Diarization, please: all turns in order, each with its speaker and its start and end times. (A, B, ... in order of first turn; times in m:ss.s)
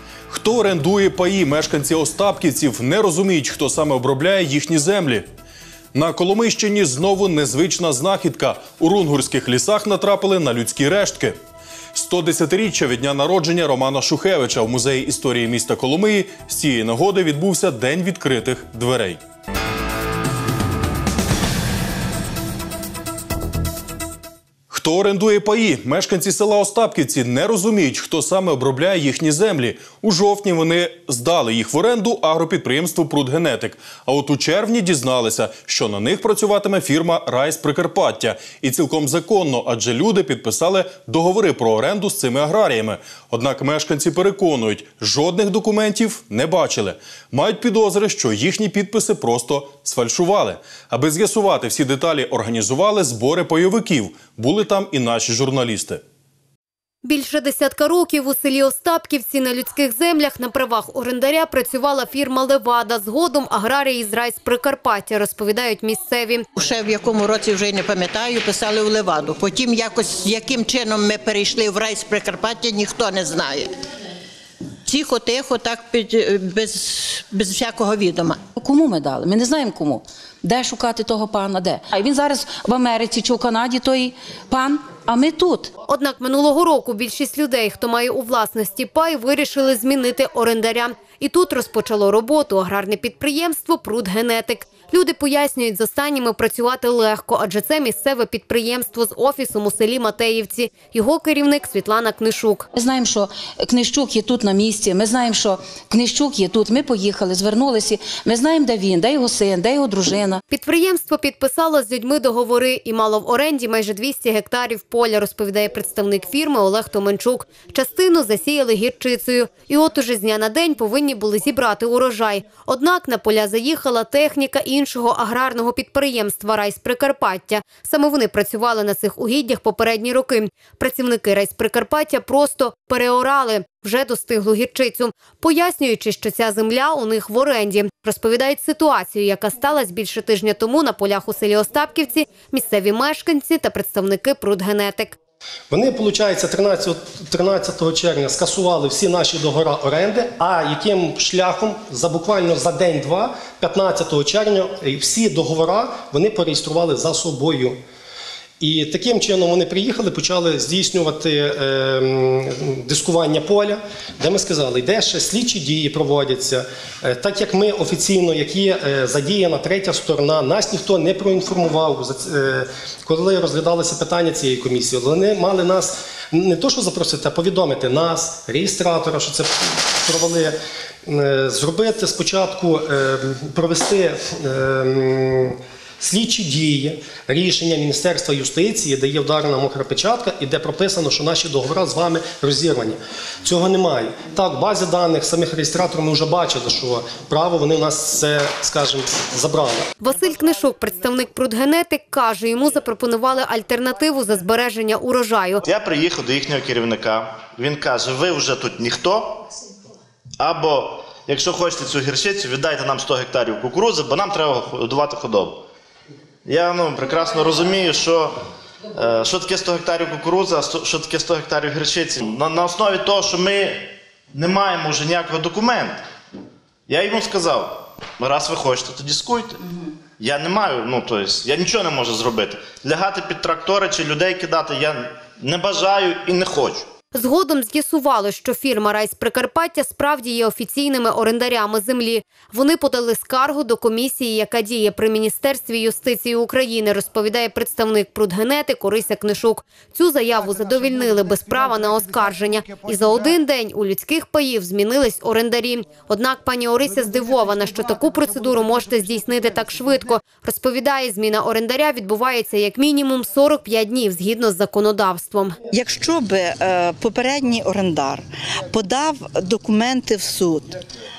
0:00.3-0:05.2 A
0:05.9-0:11.4 A
0:11.9-0:19.2 A
0:24.7-0:56.0 A
0:57.0-1:06.4 B
1:06.6-1:13.7 C
1:14.8-1:18.4 C
1:18.6-1:25.7 D
1:25.9-1:42.7 B
1:42.7-1:50.4 D
1:50.5-2:25.2 B
2:25.7-2:37.8 E
2:38.6-3:19.9 E
3:20.0-3:25.6 B
3:25.6-3:29.5 F
3:30.4-3:35.6 F
3:36.4-3:38.4 F
3:38.9-3:46.0 F
3:46.9-3:49.6 F
3:50.2-3:56.9 F
3:57.1-4:25.6 B
4:25.7-4:30.8 G